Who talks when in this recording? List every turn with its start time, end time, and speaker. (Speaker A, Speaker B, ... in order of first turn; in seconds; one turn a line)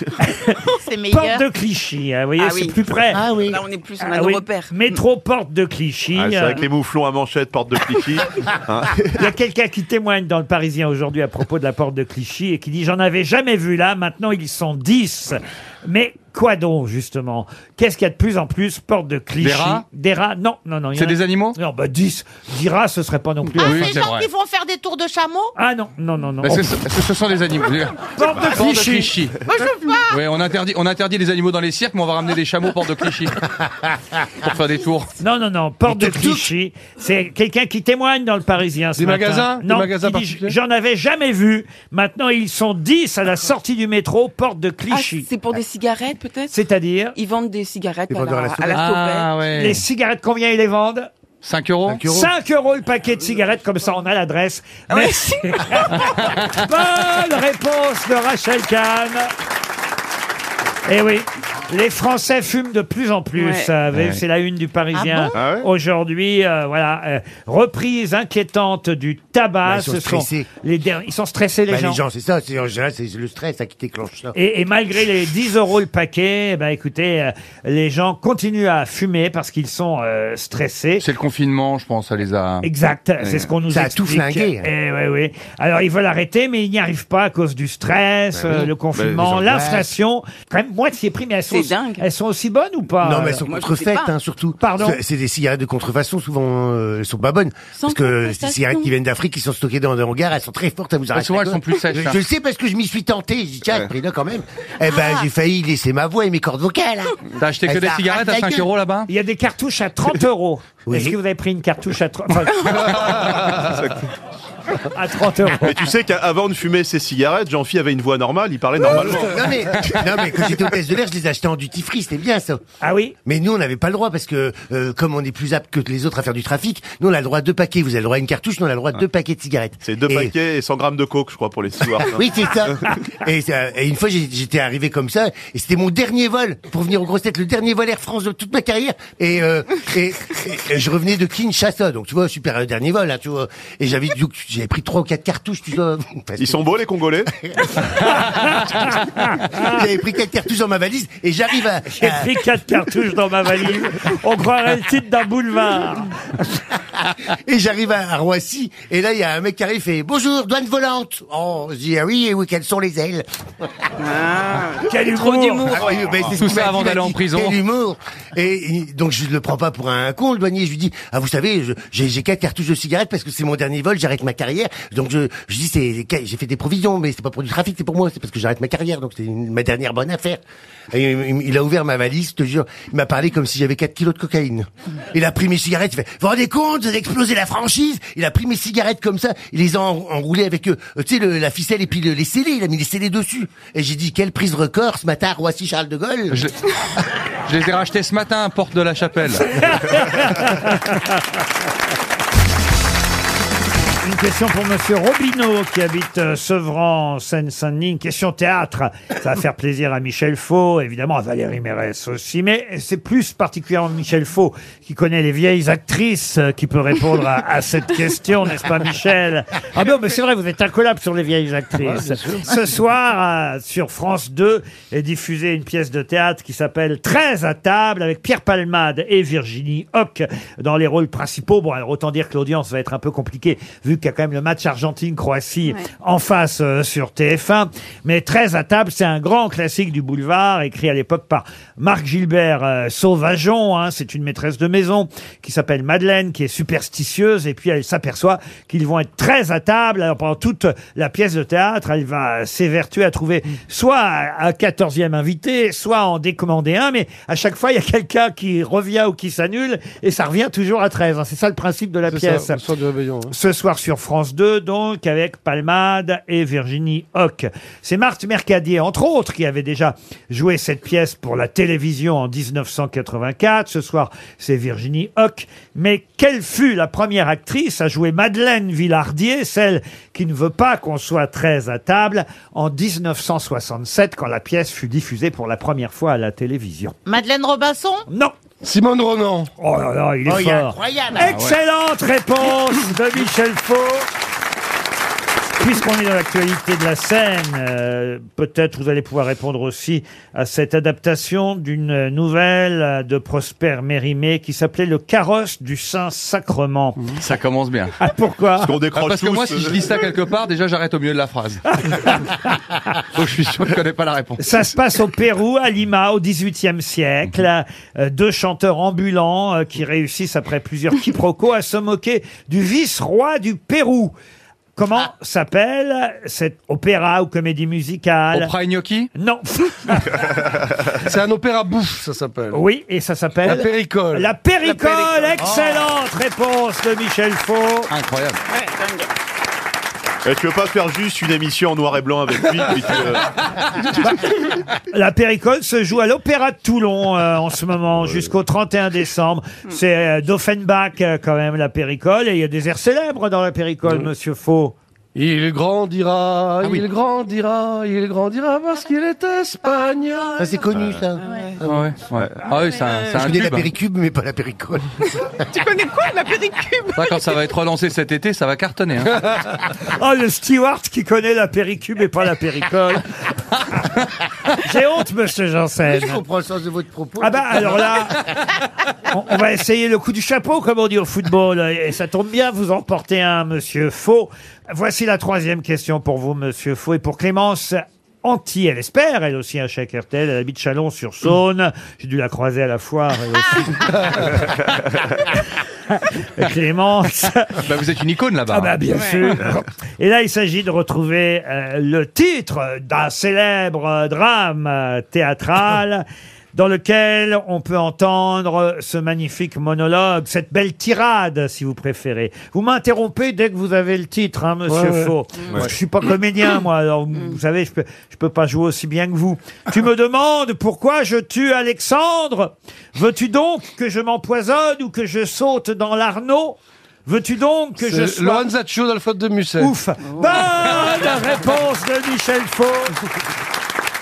Speaker A: 0.2-3.2
Speaker B: 0.7-1.4
Speaker C: 2.4-2.8
Speaker D: 3.1-3.6
Speaker C: 3.5-5.0
Speaker A: 4.0-6.6
Speaker E: 6.1-9.2
Speaker A: 9.2-24.0
Speaker F: 19.4-19.8
Speaker F: 21.0-21.6
Speaker F: 23.6-24.3
Speaker B: 23.6-25.5
Speaker A: 25.6-26.7
Speaker F: 26.4-29.4
Speaker A: 28.2-29.1
Speaker B: 29.5-30.2
Speaker F: 30.1-33.5
Speaker F: 34.4-35.1
Speaker A: 35.2-45.3
Speaker D: 35.9-36.5
Speaker G: 39.0-40.5
Speaker C: 44.9-46.5
Speaker A: 46.5-47.1
Speaker C: 47.1-49.3
Speaker D: 48.1-48.9
Speaker F: 48.7-49.8
Speaker A: 49.6-51.1
Speaker F: 51.4-52.0
Speaker D: 51.9-52.3
Speaker A: 52.1-59.3
Speaker C: 54.9-56.1
Speaker F: 56.2-56.4
Speaker A: 60.9-72.0
Speaker C: 63.4-63.7
Speaker F: 63.9-64.2
Speaker E: 65.3-65.7
Speaker D: 69.7-70.5
Speaker D: 71.7-74.3
Speaker A: 74.3-81.0
Speaker F: 81.0-82.7
Speaker A: 82.6-93.4
Speaker E: 83.2-83.5
Speaker D: 83.7-84.7
Speaker E: 88.5-89.8
Speaker D: 89.3-89.9
Speaker C: 91.5-92.0
Speaker D: 93.0-108.7
Speaker C: 93.5-94.1
Speaker A: 94.6-95.0
Speaker C: 97.8-98.9
Speaker F: 101.1-102.2
Speaker F: 107.4-109.1
Speaker A: 109.1-113.4
Speaker D: 110.9-111.2
Speaker E: 113.6-114.0
Speaker A: 114.9-115.7
Speaker E: 115.6-119.5
Speaker D: 118.8-122.6
Speaker A: 122.8-123.2
Speaker D: 123.2-130.3
Speaker E: 129.8-132.9
Speaker D: 131.9-146.7
Speaker E: 146.4-147.3
Speaker D: 147.4-147.7
Speaker A: 148.0-149.8
Speaker D: 149.6-152.3
Speaker A: 151.9-156.1
Speaker D: 157.0-163.7
Speaker C: 164.0-165.8
Speaker A: 164.9-165.8
Speaker D: 165.7-196.4
Speaker E: 165.9-166.3
Speaker F: 166.3-167.6
Speaker F: 197.5-199.5
Speaker A: 199.5-201.2
Speaker A: 204.0-262.6
Speaker G: 221.8-222.5
Speaker G: 262.1-263.3
Speaker A: 263.3-287.0
Speaker B: 287.1-288.1
Speaker A: 288.1-288.3
Speaker G: 288.6-289.5
Speaker A: 289.6-294.1
Speaker D: 290.3-291.3
Speaker F: 291.3-291.6
Speaker A: 295.6-307.0
Speaker F: 307.2-307.9
Speaker A: 308.0-308.7
Speaker E: 308.6-309.9
Speaker F: 309.0-311.8
Speaker A: 311.7-312.5
Speaker F: 313.1-314.4
Speaker A: 314.4-324.1
Speaker A: 324.8-328.5
Speaker F: 328.3-329.1
Speaker A: 329.2-330.2
Speaker G: 331.0-332.6
Speaker A: 332.5-337.9
Speaker G: 333.4-334.3
Speaker C: 334.8-335.3
Speaker D: 335.4-335.8
Speaker F: 337.9-338.4
Speaker E: 340.2-343.4
Speaker A: 344.9-354.8
Speaker G: 355.1-360.5
Speaker D: 360.4-361.9
Speaker E: 360.7-361.0
Speaker C: 361.2-361.6
Speaker F: 361.6-363.7
Speaker E: 362.1-362.6
Speaker D: 363.0-365.4
Speaker C: 365.5-367.0
Speaker F: 366.9-369.1
Speaker A: 369.8-373.1
Speaker A: 374.6-376.2
Speaker D: 375.9-378.3
Speaker A: 377.2-378.3
Speaker A: 379.1-394.5
Speaker A: 395.9-397.6
Speaker F: 397.6-398.8
Speaker A: 398.5-428.5
Speaker G: 414.7-415.7
Speaker G: 427.8-429.8
Speaker A: 429.6-433.0